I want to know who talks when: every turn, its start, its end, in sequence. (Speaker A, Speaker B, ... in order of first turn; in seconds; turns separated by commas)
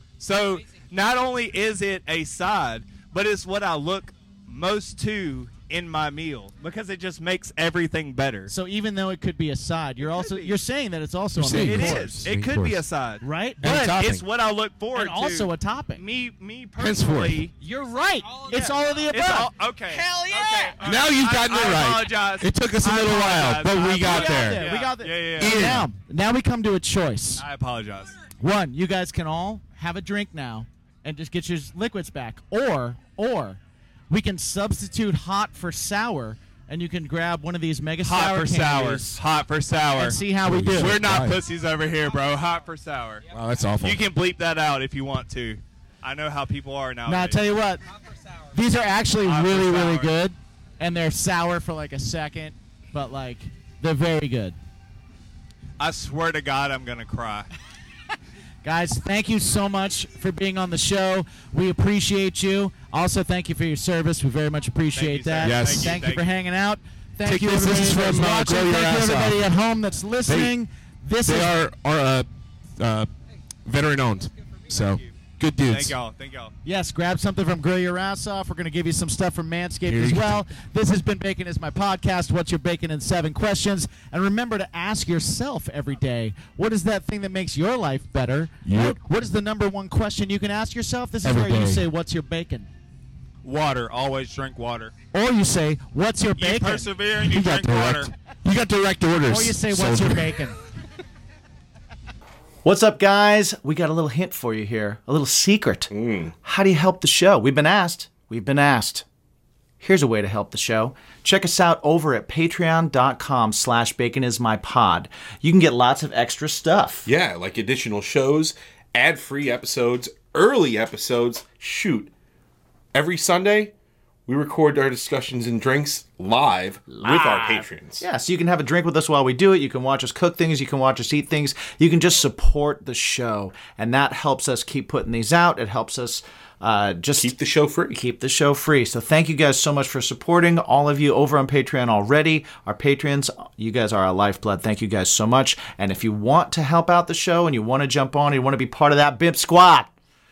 Speaker A: 0.2-8.5, Speaker B: 0.3-0.9, Speaker C: 8.5-12.3, Speaker A: 10.0-10.6, Speaker D: 11.4-12.8, Speaker A: 11.5-13.2, Speaker C: 13.2-14.0, Speaker D: 13.6-14.2, Speaker A: 13.8-17.5, Speaker C: 14.9-16.0, Speaker D: 16.8-17.5, Speaker C: 17.6-19.5, Speaker B: 18.2-20.8, Speaker A: 19.1-25.7, Speaker D: 20.8-24.7, Speaker C: 23.8-27.4, Speaker D: 25.4-25.9, Speaker A: 27.4-28.2, Speaker C: 28.4-39.2, Speaker A: 38.0-40.2, Speaker C: 39.9-41.0, Speaker D: 40.4-41.4, Speaker A: 40.7-43.3, Speaker B: 42.0-44.0, Speaker D: 43.3-44.0, Speaker A: 43.8-47.4, Speaker C: 47.1-47.8, Speaker B: 47.8-48.8, Speaker C: 48.5-54.6, Speaker A: 49.2-50.1, Speaker A: 55.8-57.5, Speaker C: 58.6-71.6, Speaker A: 65.0-66.3, Speaker D: 65.4-66.0, Speaker D: 67.2-69.5, Speaker D: 70.3-70.5, Speaker D: 71.2-73.1, Speaker D: 73.7-76.0, Speaker B: 74.0-75.0, Speaker A: 74.7-75.2, Speaker A: 75.7-76.5, Speaker C: 76.7-92.7, Speaker D: 79.9-80.5, Speaker D: 88.6-89.0, Speaker D: 91.2-91.9, Speaker A: 93.4-94.9, Speaker C: 95.1-96.9, Speaker A: 96.4-98.1, Speaker D: 97.2-100.4, Speaker C: 99.3-100.6, Speaker E: 102.7-105.9, Speaker F: 105.9-106.3, Speaker E: 106.4-109.0, Speaker E: 109.8-117.1, Speaker F: 117.0-122.1, Speaker F: 122.9-123.7, Speaker F: 124.3-128.0, Speaker E: 126.9-137.3, Speaker F: 137.2-138.0, Speaker E: 137.9-149.9